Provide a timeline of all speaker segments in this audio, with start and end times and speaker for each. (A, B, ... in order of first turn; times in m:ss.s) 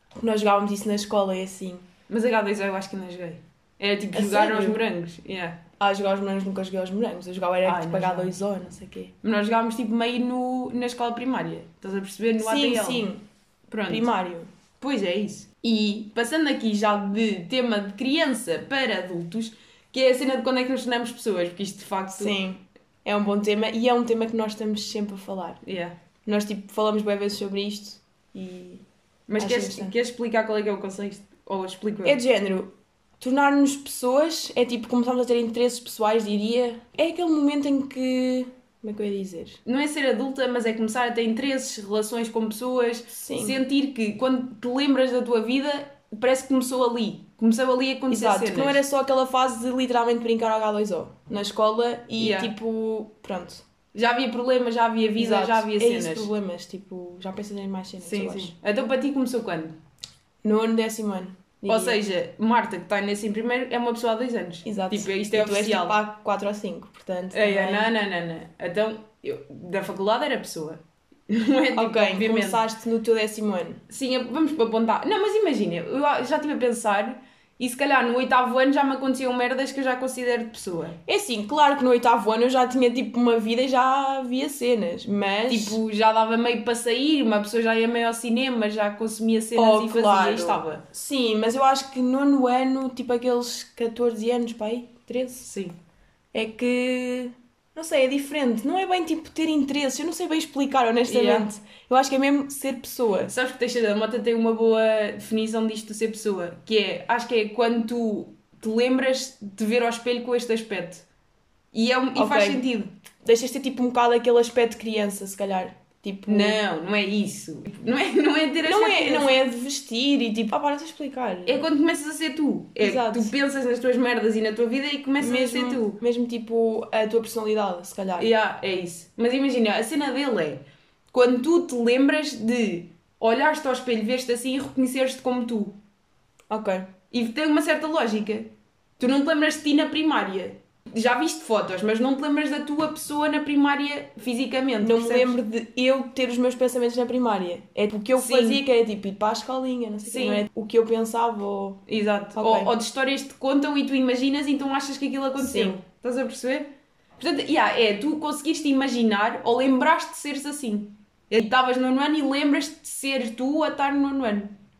0:00.2-0:01.9 A
0:02.1-0:05.6 B
0:04.1-0:04.8 A
0:05.8-0:09.1 A
0:07.6-0:08.4 B
0:09.2-0:13.1 B
0:12.4-0:13.2 A
0:13.7-0:14.1 B
0:13.9-0:14.5 A
0:14.8-0:22.4 B
0:22.2-0:25.6 A
0:25.6-0:26.0 B
0:26.2-0:28.8 A
0:29.3-0:32.2 B
0:29.4-0:29.9 A
0:32.0-0:39.6 A
0:39.7-0:48.8 B
0:43.1-0:43.6 A
0:48.1-0:53.6 A
0:52.2-0:52.5 B
0:53.9-0:56.3 B
0:55.2-0:58.6 A
0:58.0-0:59.8 B
1:00.4-1:02.0 A
1:01.7-1:06.0 B
1:04.6-1:07.9 A
1:07.3-1:12.6 B
1:11.7-1:13.8 A
1:13.9-1:21.0 B
1:21.1-1:25.8 A
1:25.5-1:30.8 B
1:29.6-1:35.5 A
1:35.4-1:35.8 B
1:36.3-1:43.3 A
1:41.1-1:41.5 B
1:43.3-1:51.1 B
1:51.7-1:52.9 B
1:52.2-1:52.7 A
1:53.2-1:56.6 A
1:56.3-1:59.3 B
1:58.6-2:01.6 A
2:01.5-2:06.0 B
2:02.8-2:03.3 A
2:05.2-2:08.3 A
2:08.2-2:15.8 B
2:16.5-2:16.9 A
2:17.1-2:25.4 B
2:24.8-2:31.8 A
2:28.2-2:28.6 B
2:30.1-2:30.5 B
2:31.9-2:44.6 B
2:32.4-2:32.7 A
2:35.4-2:35.8 A